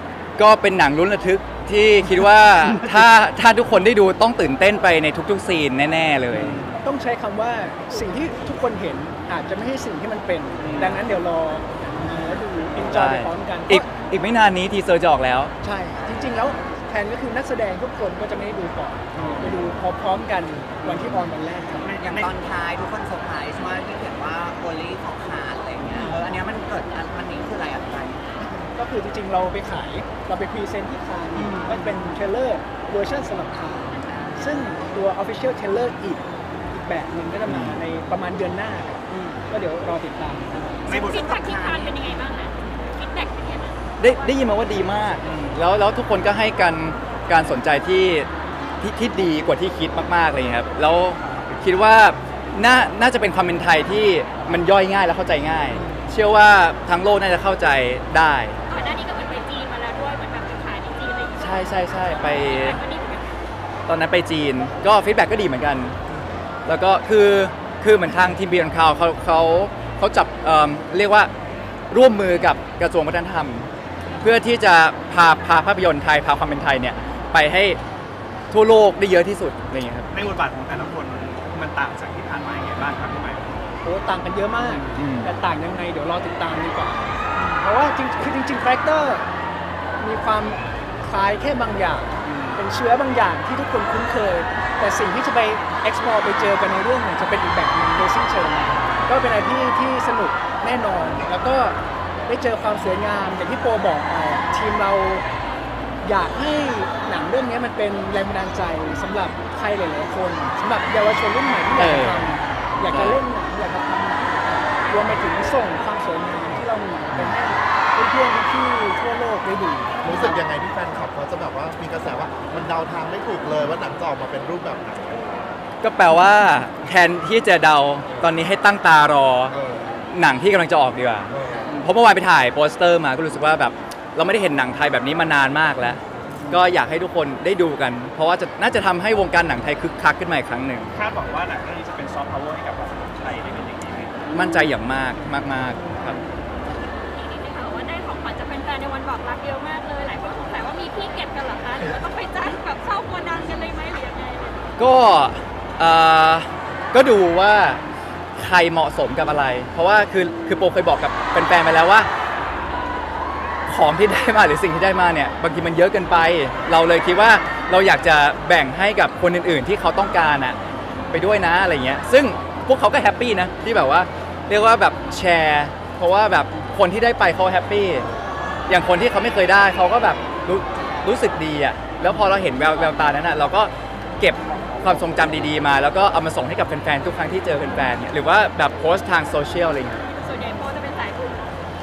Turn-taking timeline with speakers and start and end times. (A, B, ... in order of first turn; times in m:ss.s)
0:00.4-0:06.6 A
0:06.4-0:06.8 B
0:06.8-0:13.9 C
0:10.6-0:11.0 B
0:12.8-0:15.5 A
0:15.6-0:21.9 C
0:19.2-0:19.6 B
0:20.9-0:21.3 A
0:21.8-0:22.4 B
0:22.1-0:28.2 D
0:26.0-0:26.2 C
0:28.4-0:40.8 C
0:31.4-0:31.8 D
0:37.5-0:37.8 A
0:40.9-0:44.4 E
0:40.9-0:41.2 B
0:41.0-0:42.3 D
0:44.0-0:48.3 A
0:48.8-0:58.6 A
0:55.7-0:56.1 C
0:58.7-1:03.3 E
1:01.4-1:02.8 A
1:03.9-1:06.0 A
1:06.7-1:11.3 A
1:11.9-1:13.7 A
1:14.2-1:17.8 A
1:18.5-1:20.1 A
1:20.1-1:23.6 B
1:23.8-1:29.2 C
1:24.6-1:25.3 A
1:30.0-1:45.2 C
1:32.2-1:32.6 B
1:46.0-2:00.4 C
1:51.8-1:52.3 A
1:52.8-1:53.2 A
2:00.0-2:05.5 F
2:05.8-2:09.6 A
2:08.1-2:08.3 F
2:09.5-2:10.1 F
2:10.1-2:20.9 A
2:11.3-2:11.7 F
2:20.9-2:24.2 B
2:24.3-2:26.2 A
2:27.1-2:34.7 E
2:34.8-2:37.8 A
2:38.4-2:42.1 A
2:43.7-2:50.6 A
2:51.1-2:58.1 A
2:58.7-3:10.0 A
3:10.0-3:11.6 E